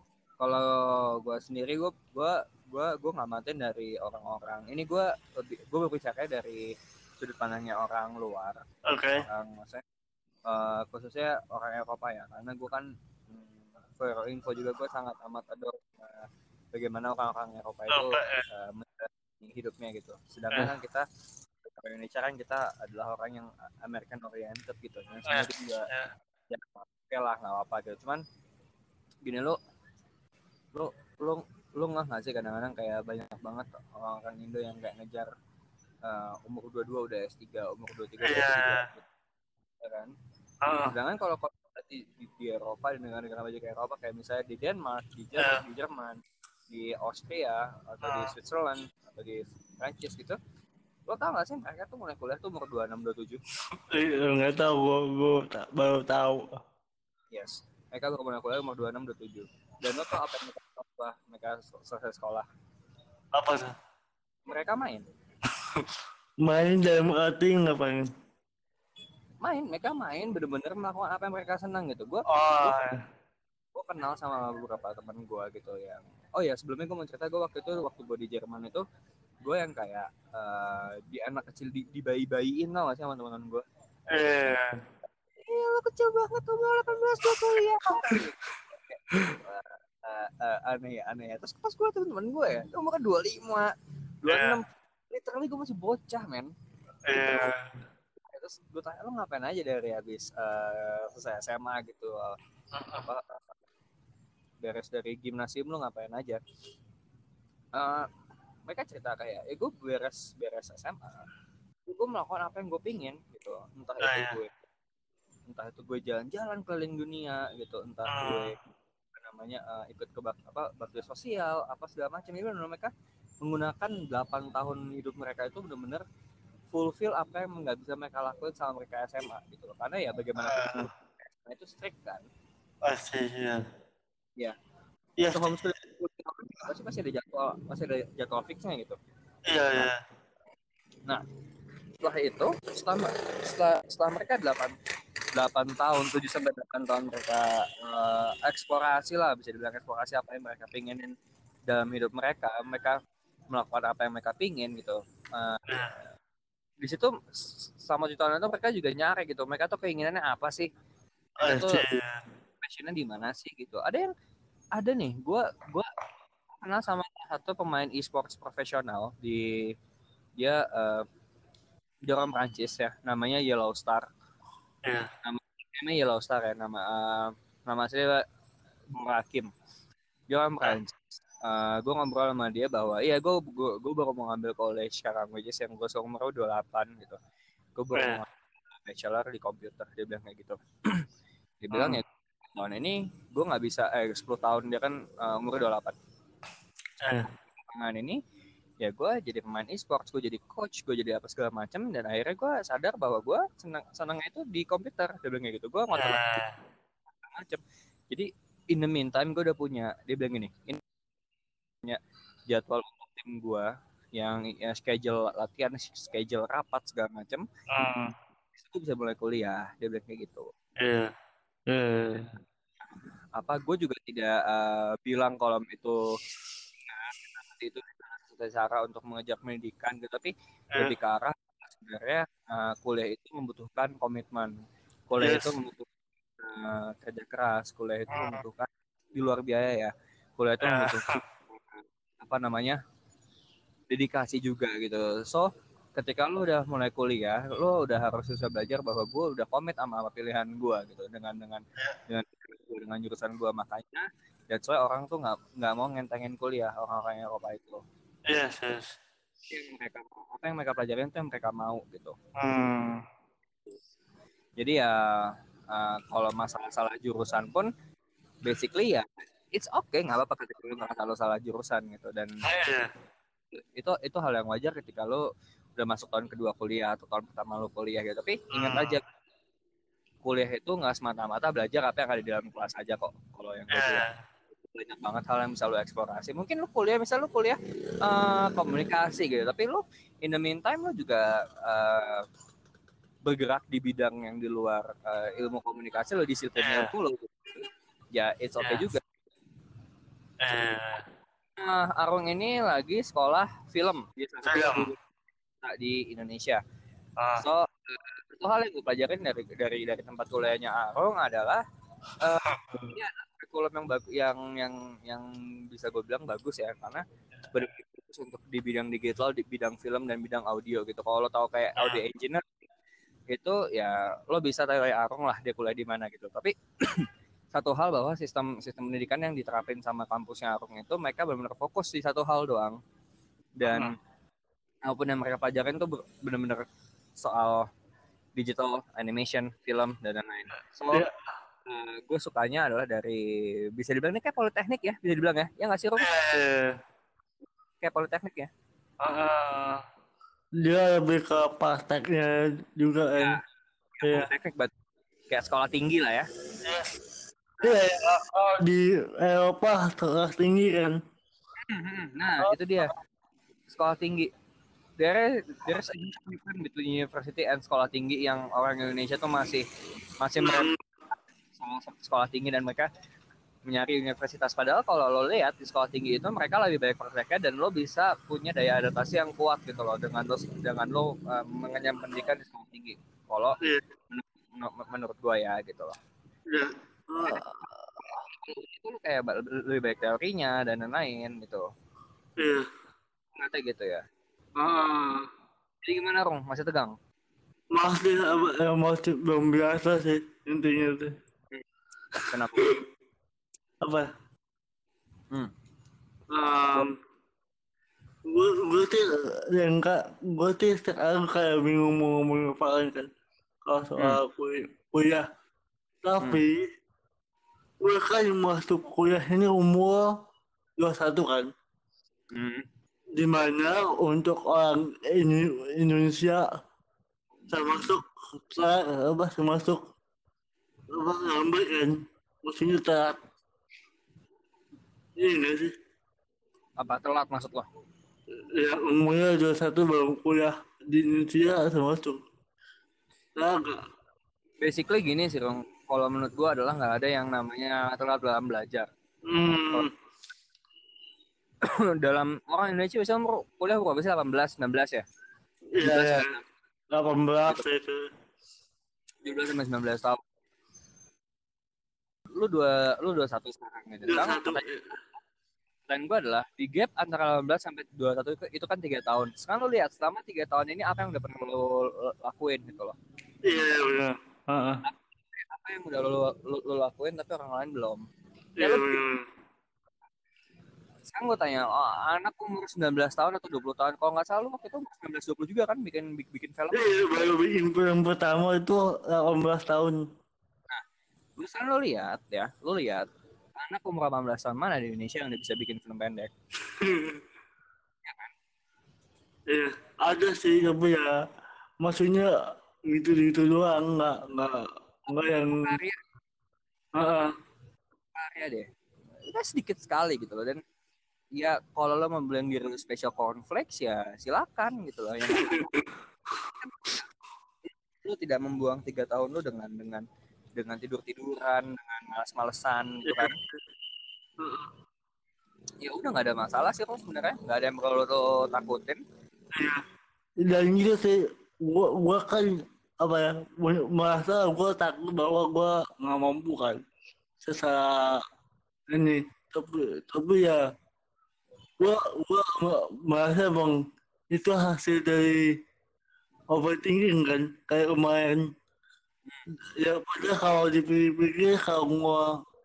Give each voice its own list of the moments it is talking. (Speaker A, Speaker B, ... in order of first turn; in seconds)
Speaker A: 0.4-6.7, 7.2-8.6, 9.2-9.8, 10.5-21.0, 21.6-25.9, 26.5-28.2, 29.2-29.6, 30.7-35.3, 36.0-39.1, 39.8-40.1, 40.8-50.4, 51.1-53.4, 57.3-62.5, 64.5-65.0, 69.4-72.8, 73.7-78.8, 79.4-83.6, 85.4-93.7, 94.2-96.5, 97.1-97.5, 98.3-102.4, 102.9-103.5, 104.6-106.4, 107.8-108.1, 108.7-111.2, 111.9-114.5, 115.5-118.6, 119.2-122.9, 123.4-126.0, 126.7-132.3, 135.3-138.9, 142.0-144.8, 145.3-151.1, 151.7-153.0, 153.5-155.6, 156.8-160.7, 161.4-161.8, 162.6-164.1, 164.8-165.9, 166.6-169.7, 170.4-171.1, 172.1-174.1, 175.2-178.2, 178.9-179.5, 180.3-187.2, 187.8-191.1, 191.6-195.9, 197.5-198.2, 198.8-206.2, 207.2-210.8, 211.8-217.4, 218.6-220.5, 223.4-226.0, 226.9-234.6, 235.1-235.9, 236.4-241.6, 242.2-242.8, 243.9-257.8, 259.5-262.1, 264.6-267.7, 268.4-272.4, 273.8-275.2, 275.8-279.0, 280.2-284.1, 284.7-292.2, 293.2-299.0, 301.6-305.0, 305.6-306.6, 307.4-311.6, 312.2-322.4, 323.3-332.8, 333.6-333.9, 334.9-336.6, 337.2-337.6, 338.4-341.1, 341.7-346.1, 347.8-348.5, 354.0-354.7, 355.3-356.2, 361.7-362.9, 363.7-364.3, 365.0-369.6, 370.2-370.7, 371.6-372.9, 373.6-383.6, 384.1-386.0, 388.1-391.6, 393.4-394.0, 395.8-396.9, 402.3-402.8, 422.3-422.6, 436.8-437.6, 444.6-448.9, 451.6-455.0, 455.8-456.4, 459.2-460.2, 462.3-464.8, 465.9-473.0, 474.8-478.0, 478.6-479.0, 481.1-487.1, 491.4-493.0, 493.6-496.3, 498.0-498.3, 505.1-506.0, 508.1-508.6, 509.3-510.6, 511.4-515.7, 516.4-517.1, 518.0-520.0, 520.5-523.4, 525.8-529.0
Speaker B: 8.9-9.2, 17.9-18.4, 25.3-26.1, 38.2-38.8, 40.6-40.9, 45.4-45.6, 48.0-48.3, 53.7-56.6, 63.3-63.7, 65.5-65.9, 66.4-68.1, 72.3-73.0, 84.1-84.8, 94.3-94.6, 97.1-97.8, 102.7-103.1, 114.0-114.4, 118.1-118.5, 130.4-130.9, 132.8-133.6, 135.2-135.6, 139.5-140.0, 155.7-155.9, 161.4-162.2, 174.8-175.1, 187.9-188.2, 191.7-192.0, 197.0-197.3, 205.9-206.6, 217.7-218.1, 220.8-221.1, 221.7-222.3, 235.2-235.5, 238.1-238.4, 240.6-241.2, 258.3-258.9, 262.4-263.0, 272.4-272.9, 278.5-279.0, 283.7-284.2, 296.6-296.9, 300.4-301.0, 304.5-304.9, 307.2-307.4, 312.4-313.0, 333.6-334.0, 340.9-341.3, 346.0-346.8, 349.0-349.8, 350.6-353.4, 354.0-354.3, 356.6-356.9, 357.6-361.0, 370.4-370.8, 386.5-387.8, 392.4-392.6, 394.6-395.3, 397.7-401.1, 402.1-402.7, 403.8-404.1, 406.3-406.9, 408.2-413.1, 413.6-415.3, 416.0-416.7, 417.8-420.1, 420.8-421.5, 423.1-426.5, 427.5-429.9, 430.9-433.2, 435.2-435.7, 438.4-442.2, 443.4-443.8, 449.3-449.9, 455.7-456.3, 456.9-458.1, 464.1-464.9, 473.5-474.8, 478.6-479.2, 486.7-490.0, 496.7-497.2, 499.5-501.1, 501.8-502.3, 502.9-505.7, 507.0-507.3, 515.3-515.9, 523.0-523.4, 524.4-524.7, 529.5-529.8, 530.4-536.8, 537.4-538.2, 538.9-540.6, 541.8-543.8, 544.3-545.5, 546.5-548.5, 549.8-552.3